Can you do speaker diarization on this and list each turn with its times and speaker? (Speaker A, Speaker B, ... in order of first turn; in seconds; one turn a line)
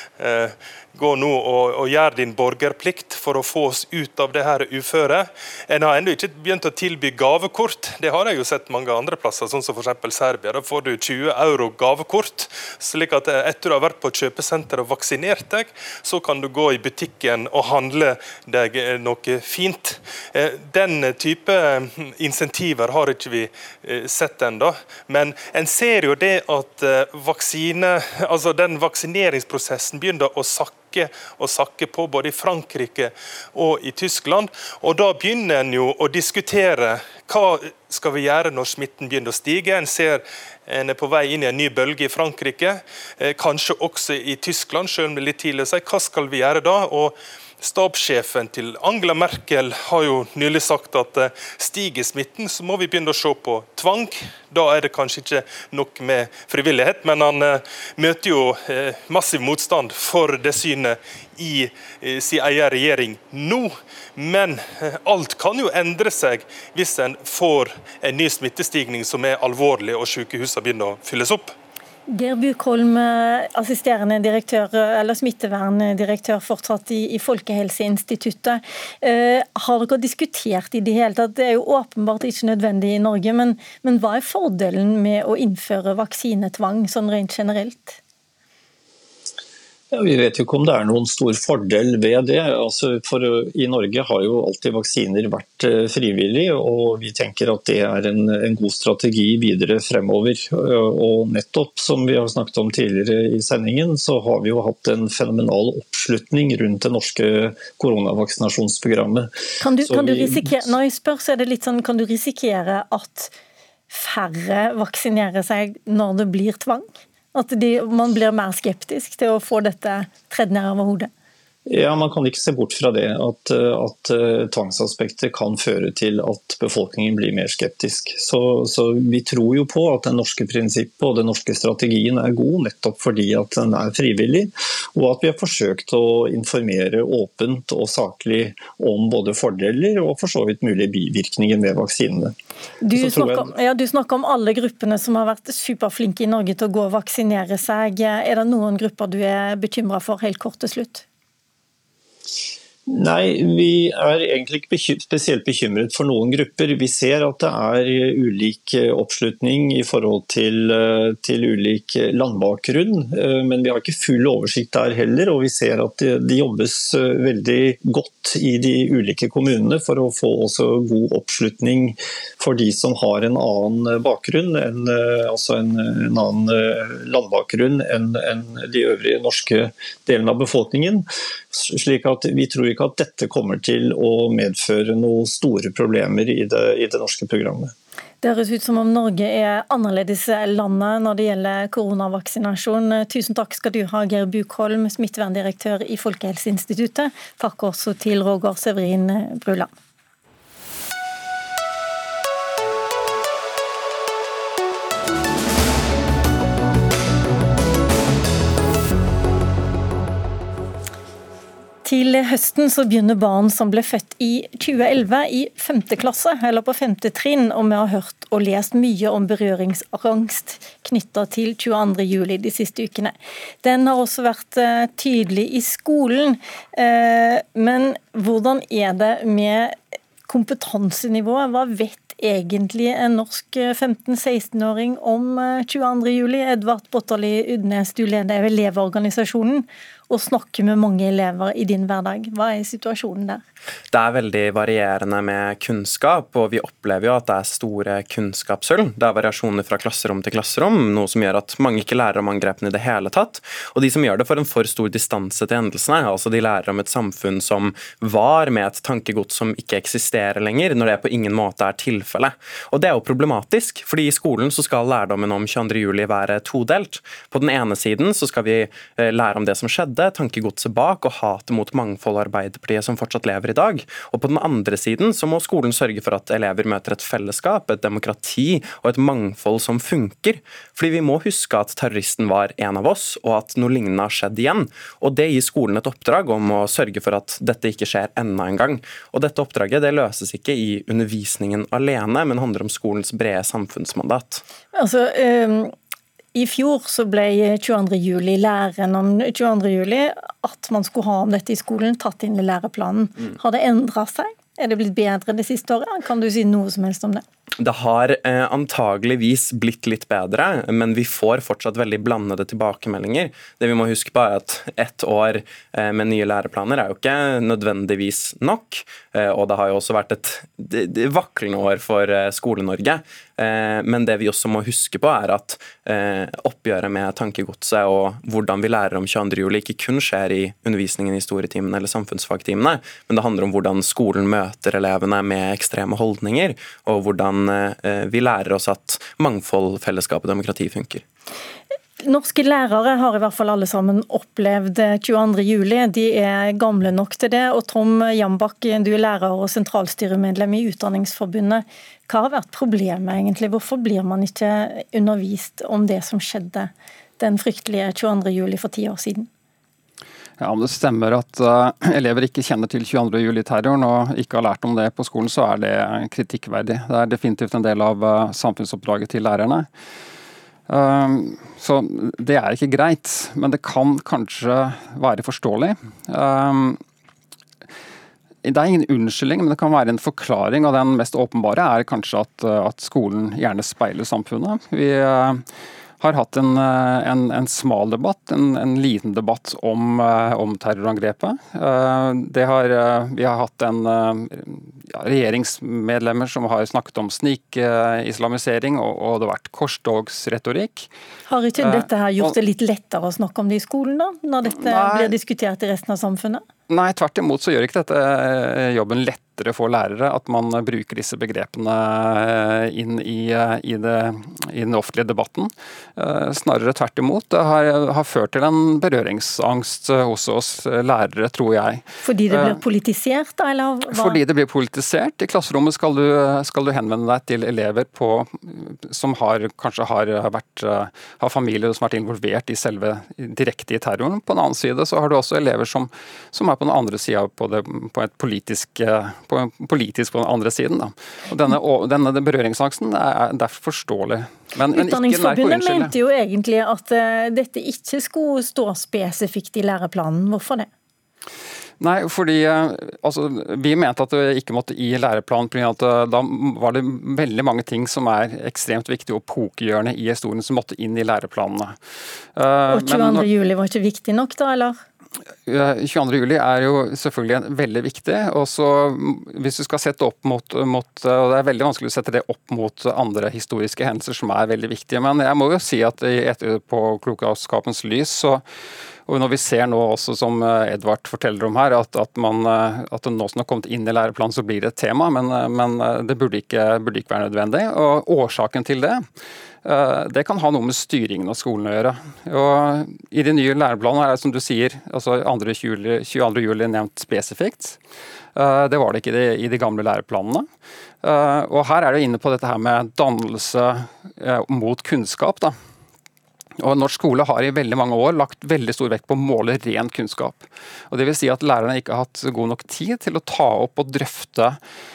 Speaker A: 0.2-71.5
Speaker B: 72.1-88.0
Speaker C: 89.9-110.7
Speaker B: 109.6-113.3
Speaker B: 113.9-121.1
Speaker C: 121.7-142.3
Speaker B: 142.8-151.0
Speaker C: 142.9-143.5
Speaker C: 152.9-187.7
Speaker B: 188.2-199.7
Speaker B: 211.8-243.4
Speaker D: 243.9-294.4
Speaker B: 294.7-295.7
Speaker B: 296.3-307.2
Speaker D: 307.6-341.0
Speaker B: 342.0-359.3
Speaker E: 360.4-369.7
Speaker E: 370.7-376.8
Speaker E: 378.4-385.4
Speaker E: 386.0-400.9
Speaker B: 401.3-406.4
Speaker E: 401.6-402.4
Speaker E: 404.4-405.1
Speaker E: 406.7-422.6
Speaker B: 422.0-424.2
Speaker E: 423.9-445.9
Speaker B: 444.7-450.7
Speaker E: 451.8-461.8
Speaker E: 462.4-463.3
Speaker B: 462.7-464.8
Speaker E: 465.5-478.4
Speaker E: 479.1-489.1
Speaker E: 489.6-497.8
Speaker E: 498.3-500.5
Speaker E: 501.0-505.6
Speaker E: 506.6-514.6